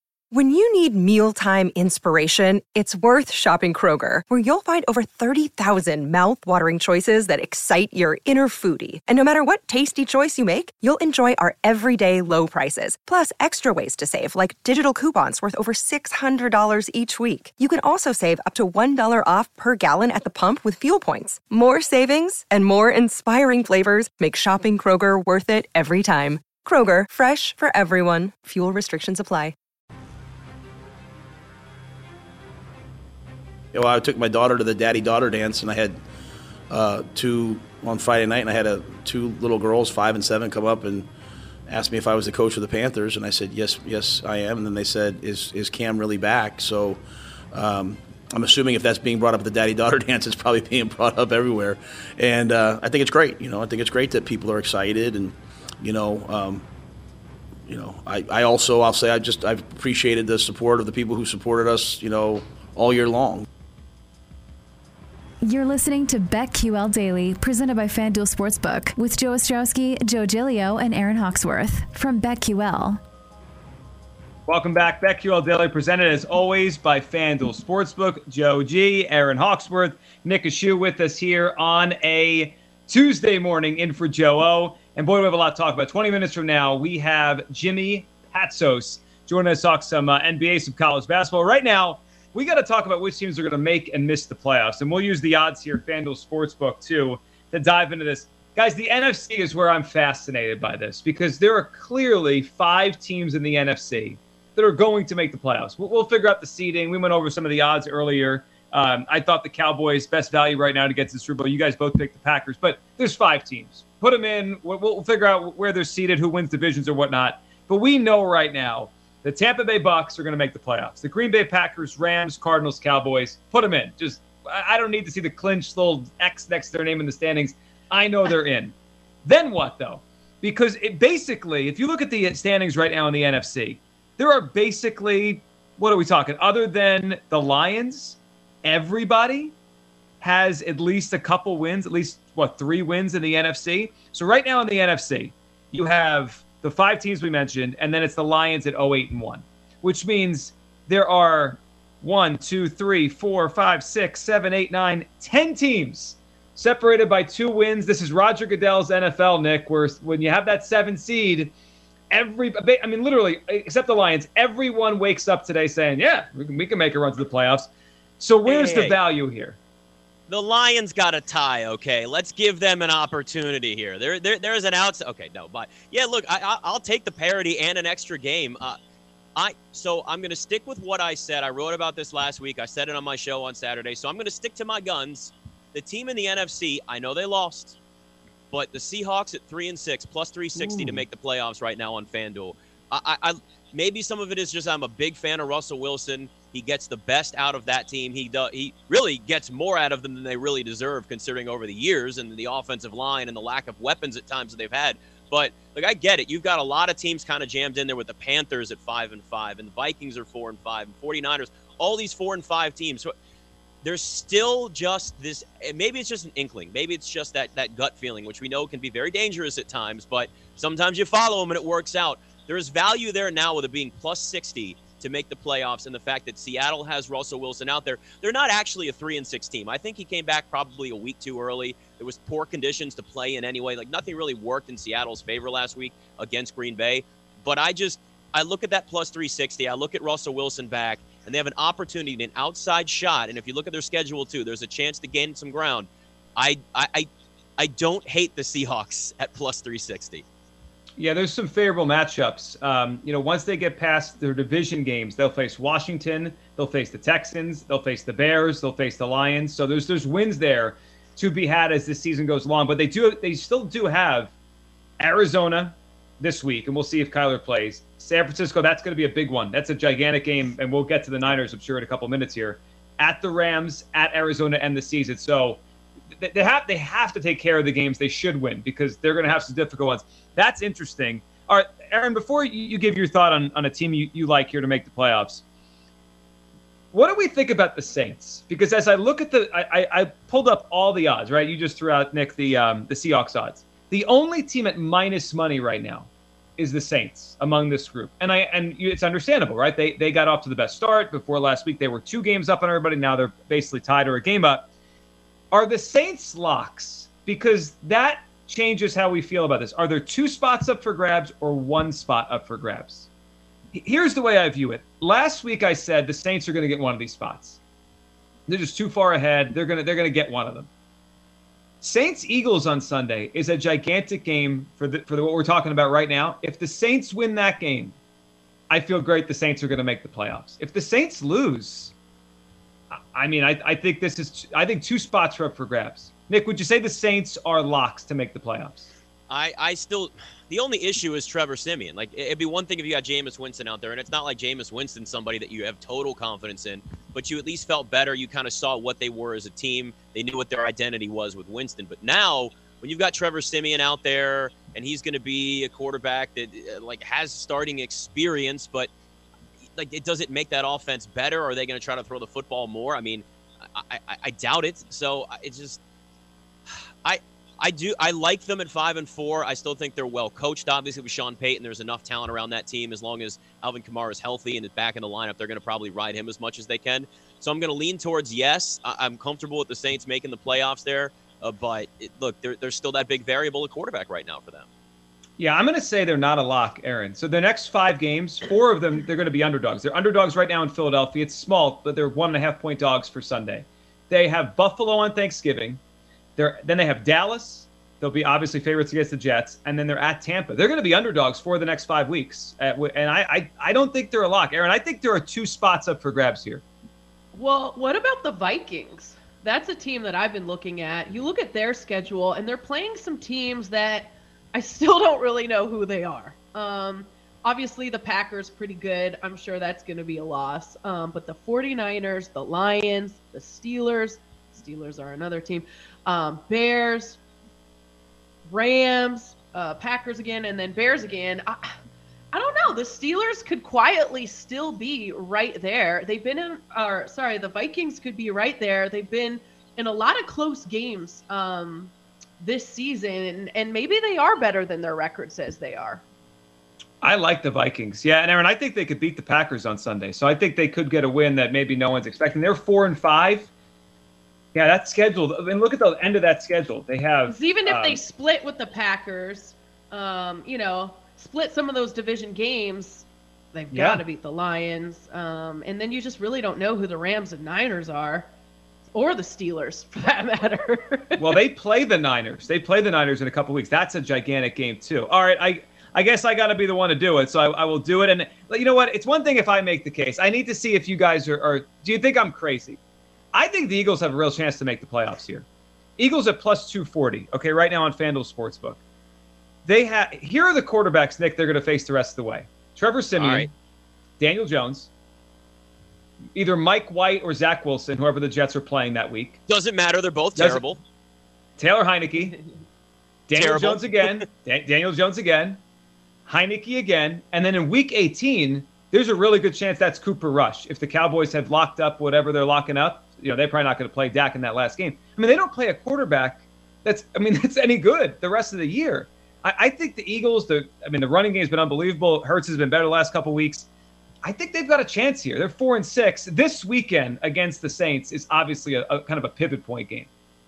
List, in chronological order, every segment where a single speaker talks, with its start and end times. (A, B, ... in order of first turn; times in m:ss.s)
0:00.3-0:29.6 A
0:33.7-0:36.0 B
0:36.7-0:41.1 B
0:41.7-0:56.6 B
0:57.7-1:03.5 B
1:05.5-1:13.0 C
1:14.5-2:19.6 D
2:20.2-2:41.5 D
2:42.1-2:47.7 D
2:48.2-2:49.6 D
2:48.4-2:49.0 E
2:50.3-2:58.8 E
2:59.4-3:07.8 E
3:08.5-3:33.1 E
3:33.8-4:10.2 E
4:11.0-4:24.3 D
4:25.0-4:35.6 D
4:36.2-4:45.4 D
4:46.9-5:04.7 D
5:05.5-5:13.1 D
5:13.7-5:17.6 D
5:18.5-5:20.7 D
5:21.8-5:28.0 D
5:28.7-5:31.9 D
5:33.1-5:38.9 D
5:39.3-5:58.9 E
5:59.8-6:05.8 E
6:07.0-6:24.7 E
6:25.4-6:35.8 D
6:36.4-6:46.6 D
6:47.3-7:07.2 F
7:08.5-7:11.7 F
7:12.3-7:26.0 F
7:27.0-7:33.5 D
7:34.6-7:38.0 D
7:37.3-7:48.3 F
7:43.7-7:44.0 D
7:48.9-7:51.4 F
7:51.2-8:02.8 D
8:03.3-8:05.5 D
8:06.0-8:08.8 D
8:09.7-8:13.5 D
8:13.2-8:13.5 E
8:14.2-8:14.9 D
8:16.4-8:19.4 D
8:19.5-8:20.8 E
8:20.4-8:20.7 D
8:21.6-8:22.4 D
8:23.3-8:25.6 D
8:23.4-8:24.2 E
8:26.3-8:43.7 D
8:44.2-8:50.1 D